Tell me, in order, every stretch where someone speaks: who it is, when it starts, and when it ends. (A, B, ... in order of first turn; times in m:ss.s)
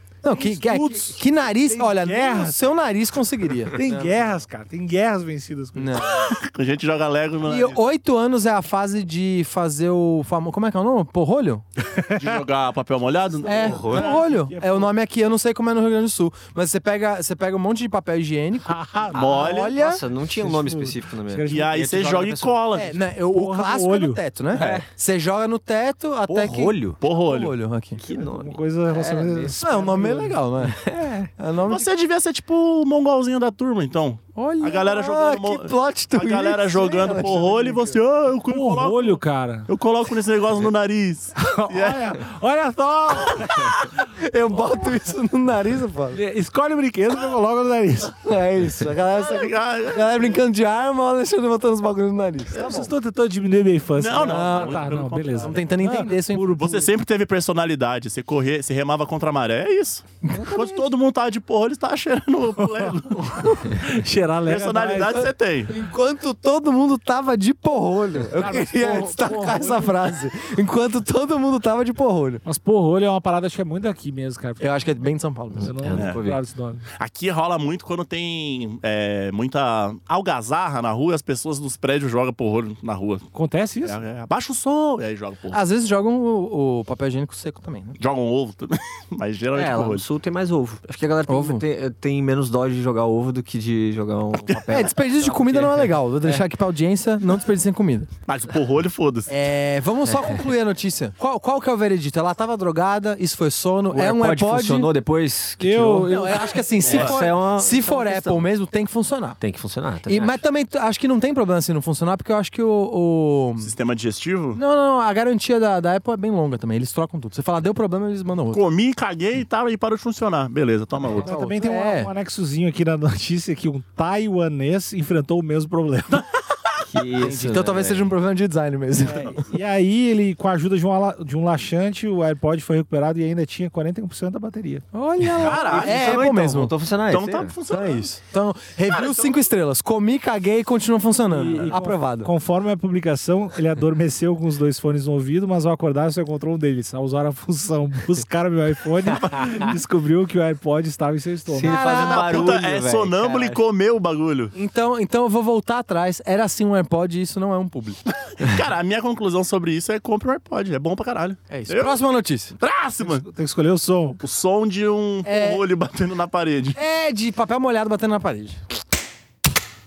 0:00.2-0:04.1 A
0:00.3-0:02.6 B
0:03.7-0:06.1 B
0:05.8-0:06.2 A
0:06.2-0:07.8 C
0:07.4-0:11.6 A
0:11.9-0:12.4 B
0:12.1-0:14.3 C
0:13.4-0:20.0 A
0:13.5-0:14.2 D
0:14.5-0:14.9 B
0:18.7-0:19.2 B
0:19.1-0:19.7 C
0:19.1-0:22.6 D
0:20.3-0:21.7 B
0:21.5-0:23.0 C
0:22.7-0:28.0 A
0:23.3-0:24.2 B
0:24.5-0:24.8 D
0:26.3-0:27.0 D
0:27.0-0:27.5 C
0:27.9-0:29.6 D
0:28.1-0:30.4 B
0:29.6-0:31.9 A
0:30.8-0:31.3 D
0:31.6-0:42.2 C
0:34.3-0:38.0 A
0:38.5-0:39.7 B
0:41.4-0:43.9 B
0:44.2-0:46.2 A
0:46.1-0:48.2 B
0:48.2-0:52.9 A
0:49.1-0:50.3 C
0:52.5-0:56.9 B
0:54.0-0:55.6 C
0:54.2-0:56.6 A
0:56.6-1:03.8 C
1:00.2-1:00.8 A
1:02.6-1:05.3 B
1:04.4-1:05.8 C
1:05.7-1:12.4 A
1:08.3-1:10.0 B
1:12.4-1:14.9 B
1:14.6-1:15.7 A
1:15.6-1:16.8 B
1:15.6-1:16.4 D
1:15.9-1:16.2 C
1:17.0-1:23.2 C
1:23.3-1:24.0 B
1:23.8-1:25.6 C
1:25.5-1:28.0 A
1:28.0-1:30.0 C
1:29.5-1:36.4 D
1:31.3-1:31.6 A
1:34.6-1:38.1 A
1:38.3-1:39.3 C
1:39.3-1:44.9 A
1:43.9-1:48.4 D
1:45.6-1:46.6 B
1:46.0-1:49.4 A
1:46.8-1:47.2 C
1:49.4-1:50.4 D
1:50.0-1:53.7 A
1:53.6-1:54.6 C
1:54.5-1:58.6 A
1:58.5-2:01.3 C
2:01.1-2:02.1 A
2:01.2-2:06.2 B
2:06.8-2:08.1 D
2:07.2-2:09.4 A
2:09.0-2:14.8 B
2:14.9-2:16.7 A
2:15.4-2:16.4 C
2:15.4-2:17.5 D
2:17.1-2:18.1 C
2:17.7-2:22.3 A
2:18.9-2:19.4 C
2:21.3-2:31.8 B
2:31.5-2:33.6 D
2:31.6-2:32.6 A
2:31.8-2:34.5 C
2:34.5-2:38.0 A
2:38.2-2:42.0 C
2:41.5-2:42.6 A
2:42.6-2:43.2 C
2:43.0-2:44.2 B
2:44.2-2:46.8 C
2:45.2-2:45.6 A
2:46.8-2:48.6 A